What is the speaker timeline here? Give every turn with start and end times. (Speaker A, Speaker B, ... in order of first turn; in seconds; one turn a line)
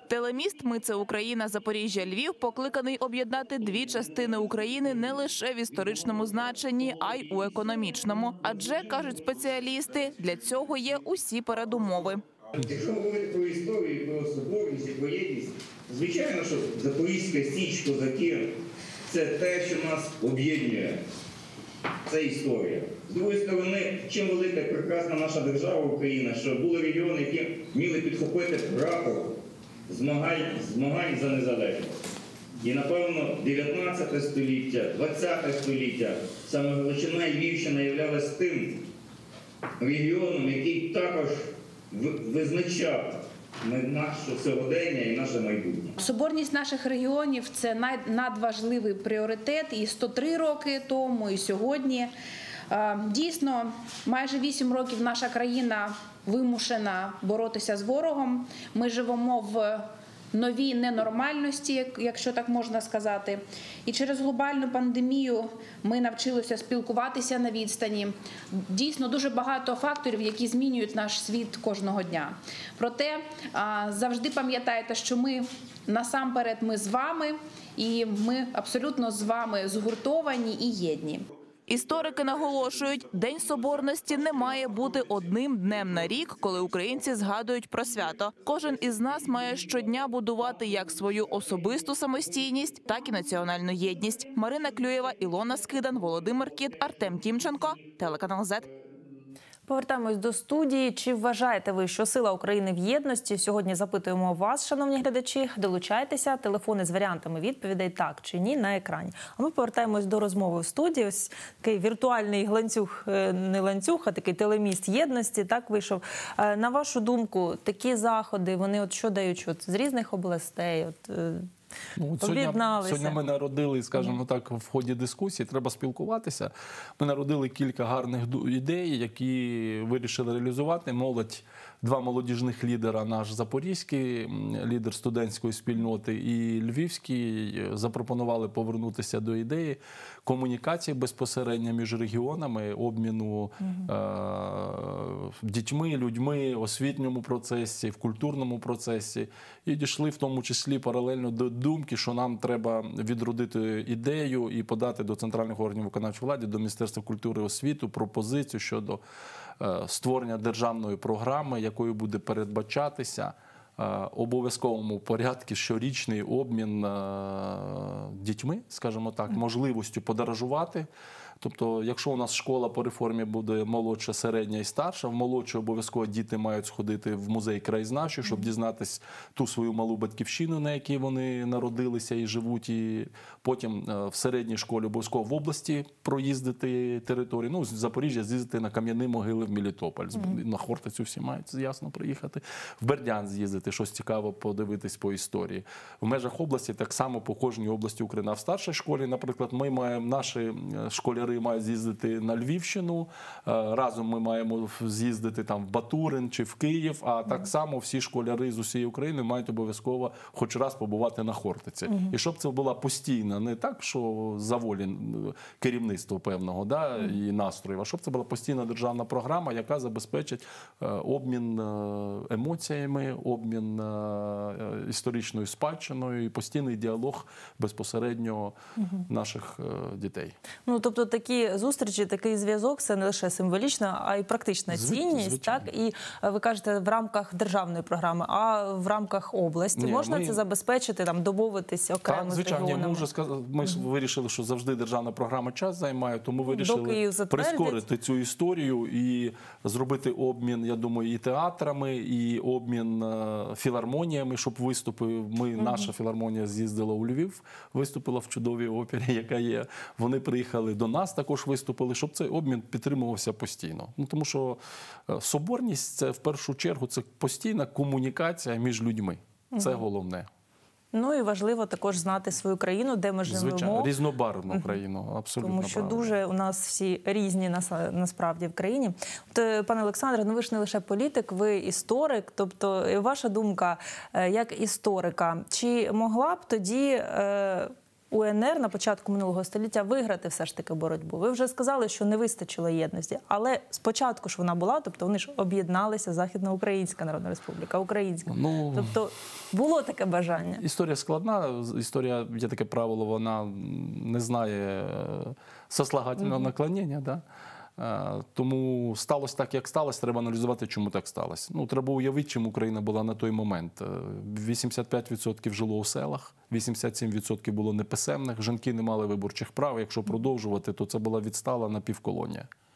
Speaker A: 0.1-12.2
Speaker B: 12.6-21.0
Speaker B: 22.1-32.0
Speaker B: 32.6-38.8
Speaker B: 39.8-46.0
Speaker C: 46.0-52.1
Speaker C: 52.7-81.3
Speaker A: 81.7-98.7
Speaker D: 99.7-121.5
Speaker E: 122.0-159.0
Speaker D: 122.2-123.2
Speaker E: 159.6-170.9
Speaker E: 171.4-228.6
Speaker E: 229.1-230.4
Speaker D: 230.7-243.1
Speaker E: 234.7-235.7
Speaker E: 239.8-240.4
Speaker E: 242.1-270.3
Speaker D: 246.5-247.8
Speaker D: 255.6-255.9
Speaker D: 269.6-269.8
Speaker D: 270.9-273.9
Speaker E: 273.2-276.1
Speaker D: 275.4-300.6
Speaker E: 298.3-298.9
Speaker E: 300.6-307.2
Speaker E: 307.8-322.5